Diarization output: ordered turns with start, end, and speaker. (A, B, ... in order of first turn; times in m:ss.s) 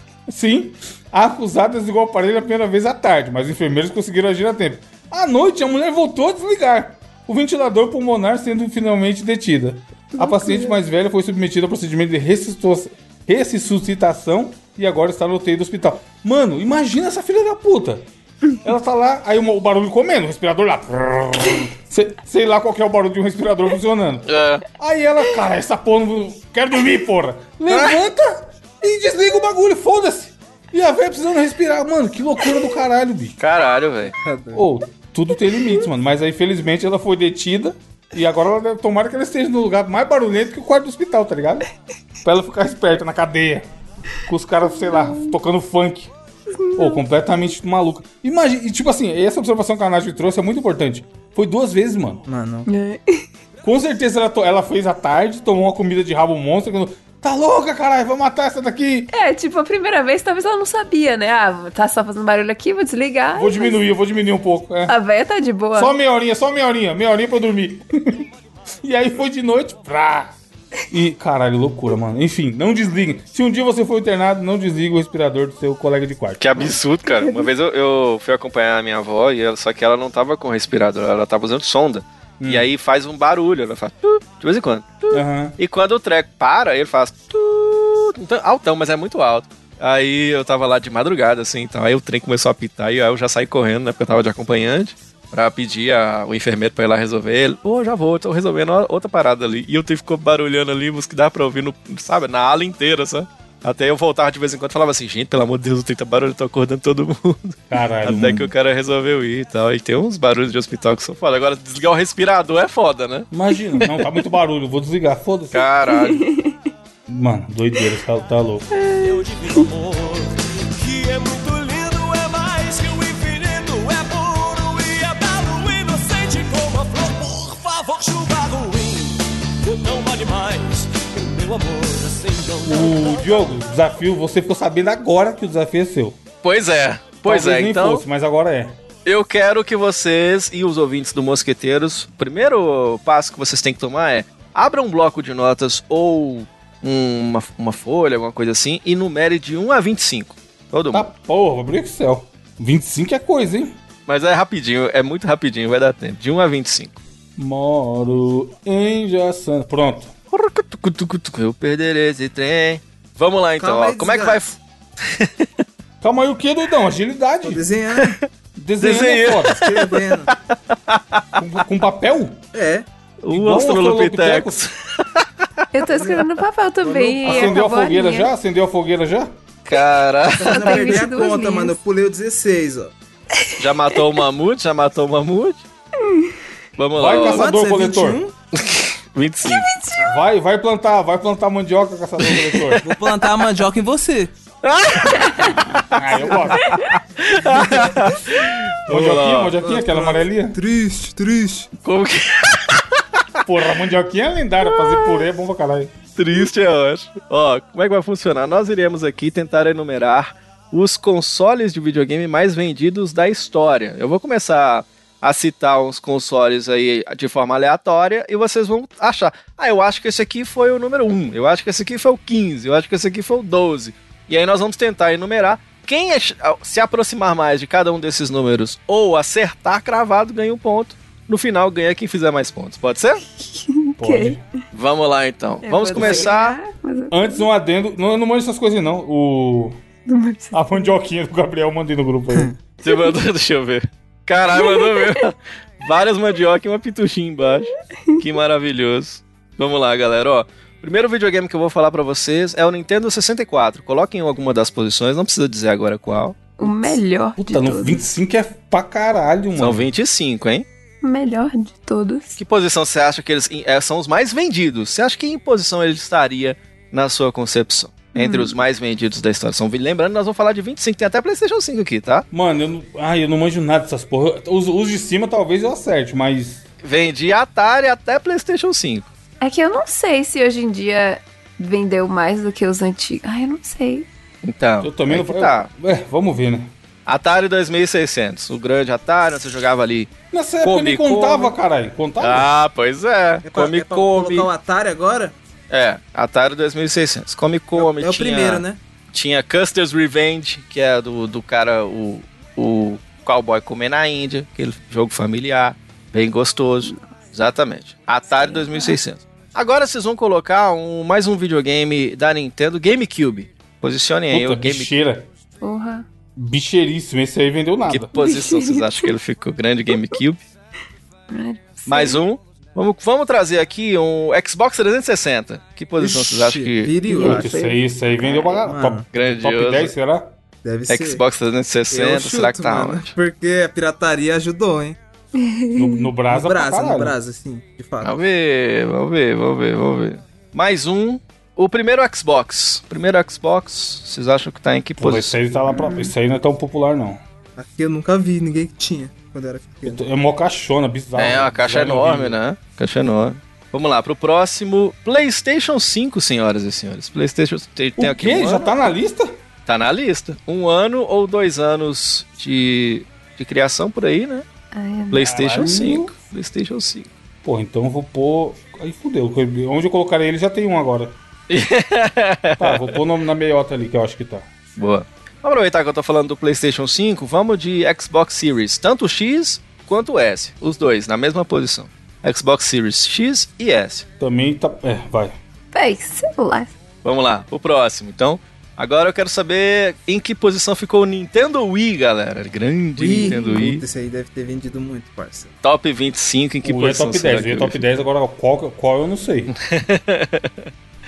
0:00.3-0:18.1 A
0:10.2-0:10.8 B
0:18.6-0:33.4 A
0:24.3-0:24.6 C
0:27.7-0:28.0 C
0:33.4-0:34.1 C
0:34.1-0:34.6 D
0:34.5-0:41.7 A
0:42.2-0:43.7 A
0:44.3-0:46.1 A
0:44.8-0:45.3 B
0:46.5-0:47.0 B
0:46.8-0:52.2 A
0:52.3-0:52.7 D
0:52.7-0:53.2 B
0:53.6-0:59.1 A
0:59.1-1:03.8 B
1:03.4-1:05.0 A
1:04.9-1:05.9 B
1:05.8-1:08.3 A
1:08.8-1:10.4 A
1:10.9-1:16.8 A
1:16.4-1:54.2 C
1:22.4-1:22.7 A
1:25.1-1:25.6 A
1:47.7-1:48.5 A
1:53.3-1:55.7 A
1:55.5-1:56.3 C
1:55.9-1:56.6 B
1:57.1-1:58.7 A
1:58.7-1:59.7 B
1:59.0-2:13.2 E
2:12.6-2:16.2 A
2:16.4-2:18.0 C
2:17.2-2:18.8 A
2:19.0-2:31.1 C
2:30.9-2:33.8 A
2:34.1-2:37.0 C
2:37.4-2:40.1 A
2:40.3-2:45.5 C
2:43.6-2:44.4 D
2:46.0-2:47.6 A
2:47.4-2:48.2 D
2:48.0-2:48.2 C
2:48.6-2:49.6 A
2:48.8-2:51.4 C
2:49.5-2:50.3 D
2:51.4-2:52.4 A
2:52.5-2:52.9 D
2:53.2-2:55.3 C
2:53.3-2:54.6 A
2:55.7-2:58.3 B
2:55.9-2:56.3 D
2:56.8-2:57.6 D
2:57.2-2:59.3 A
2:59.7-3:01.1 C
3:00.3-3:02.9 D
3:00.4-3:01.8 B
3:03.4-3:04.0 B
3:03.6-3:05.6 C
3:06.0-3:06.4 B
3:06.8-3:07.5 C
3:07.0-3:08.2 A
3:07.2-3:08.3 D
3:08.5-3:09.7 C
3:09.5-3:10.0 B
3:10.0-3:12.8 A
3:12.2-3:12.9 C
3:12.8-3:14.3 D
3:14.6-3:15.6 C
3:15.1-3:15.6 B
3:15.7-3:16.7 A
3:16.3-3:19.6 C
3:16.6-3:16.9 B
3:17.5-3:18.0 D
3:18.9-3:20.6 A
3:19.6-3:21.7 D
3:21.8-3:23.4 C
3:23.4-3:25.9 A
3:24.8-3:25.1 C
3:26.2-3:53.2 C
3:53.4-3:54.4 B
3:54.0-3:54.4 A
3:54.7-3:56.6 C
3:55.6-3:57.4 B
3:56.0-3:56.3 A
3:57.1-3:59.8 A
4:00.1-4:00.9 B
4:00.5-4:02.5 A
4:02.8-4:16.4 C
4:04.5-4:05.2 B
4:16.6-4:18.1 B
4:17.4-4:19.9 A
4:19.6-4:20.7 C
4:21.0-4:22.4 B
4:22.4-4:32.3 C
4:28.1-4:28.5 B
4:32.3-4:36.6 A
4:36.8-4:39.1 C
4:39.4-4:44.1 B
4:44.4-4:45.7 C
4:44.8-4:46.7 A
4:47.1-4:51.5 C
4:50.3-4:52.5 A
4:52.2-4:54.5 C
4:53.5-4:55.4 D
4:55.7-5:14.9 C
4:57.8-4:58.8 D
5:06.8-5:07.2 B
5:08.3-5:09.0 B
5:14.3-5:15.3 A
5:15.6-5:16.0 B
5:16.4-5:18.1 A
5:17.9-5:20.4 C
5:18.2-5:19.1 B
5:21.3-5:22.2 B
5:21.9-5:27.0 C
5:26.0-5:27.5 D
5:27.1-5:28.7 B
5:27.2-5:30.3 A
5:28.6-5:29.1 D
5:29.1-5:29.9 C
5:30.6-5:31.2 D
5:30.9-5:33.2 C
5:31.9-5:35.0 D
5:35.4-5:36.1 B
5:35.8-5:37.2 A
5:36.3-5:38.2 D
5:38.0-5:45.4 C
5:45.0-5:47.2 A
5:45.7-5:46.1 B
5:47.6-5:50.0 D
5:49.8-5:52.4 A
5:51.2-5:58.7 C
5:58.0-5:59.3 A
5:59.7-6:04.4 C
6:04.7-6:05.8 B
6:05.1-6:07.1 C
6:05.2-6:06.1 A
6:07.4-6:11.2 A
6:11.5-6:13.0 C
6:12.6-6:14.5 A
6:14.8-6:24.1 C
6:24.2-6:25.4 A
6:25.7-6:26.7 B
6:27.0-6:33.8 C
6:33.0-6:35.5 D
6:33.2-6:33.7 B
6:35.6-6:37.8 C
6:36.6-6:39.5 A
6:39.5-6:40.7 C